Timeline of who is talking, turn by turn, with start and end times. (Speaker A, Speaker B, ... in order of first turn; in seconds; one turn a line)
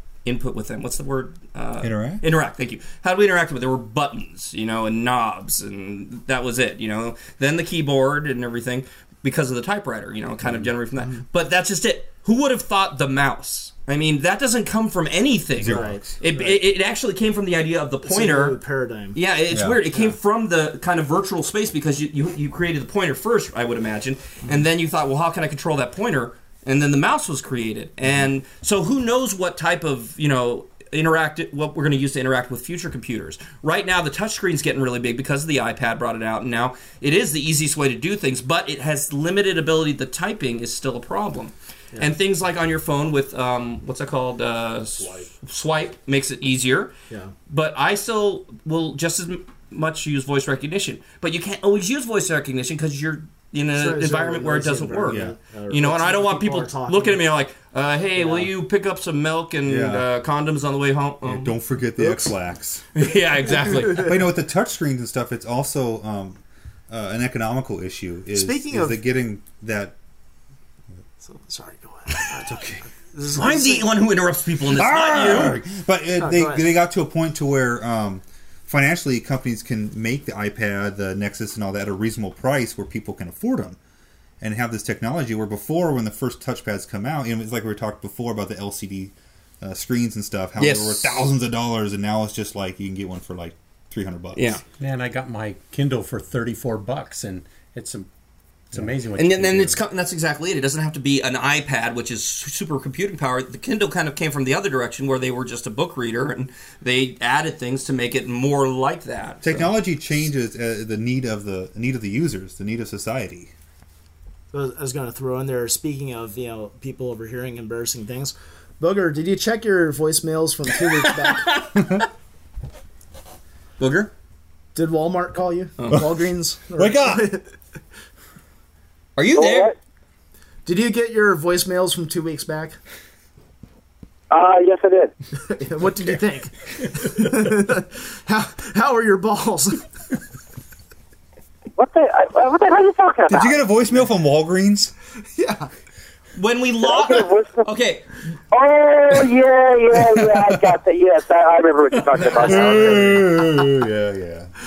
Speaker A: 0.2-18.6
Speaker B: 1.8-2.2
Speaker C: 11.0-11.2
Speaker B: 15.6-16.0
Speaker C: 15.7-16.6
Speaker C: 18.1-19.2
Speaker A: 19.1-46.9
Speaker B: 19.5-19.8
Speaker A: 47.5-61.6
Speaker C: 53.7-57.2
Speaker B: 55.1-55.4
Speaker C: 58.2-58.5
Speaker B: 59.7-60.1
Speaker B: 61.2-62.8
Speaker C: 62.0-62.3
Speaker A: 63.0-64.2
Speaker B: 63.9-70.0
Speaker C: 68.3-69.0
Speaker C: 71.2-74.0
Speaker B: 72.3-72.8
Speaker A: 73.3-75.6
Speaker B: 74.7-83.8
Speaker C: 76.2-76.7
Speaker B: 84.4-94.5
Speaker A: 90.6-91.3
Speaker A: 94.3-94.6
Speaker D: 94.8-98.1
Speaker D: 98.7-99.8
Speaker A: 99.2-109.7
Speaker B: 109.4-113.5
Speaker C: 114.5-121.6
Speaker A: 123.8-124.1
Speaker C: 124.8-127.5
Speaker B: 126.8-127.3
Speaker A: 129.2-129.7
Speaker E: 129.3-129.7
Speaker C: 130.7-132.8
Speaker E: 134.3-135.1
Speaker C: 135.4-139.8
Speaker E: 141.8-143.6
Speaker B: 143.3-144.9
Speaker C: 145.4-145.7
Speaker A: 146.4-148.2
Speaker E: 146.8-147.7
Speaker E: 148.5-153.2
Speaker B: 150.0-150.4
Speaker B: 152.3-154.5
Speaker C: 152.5-153.2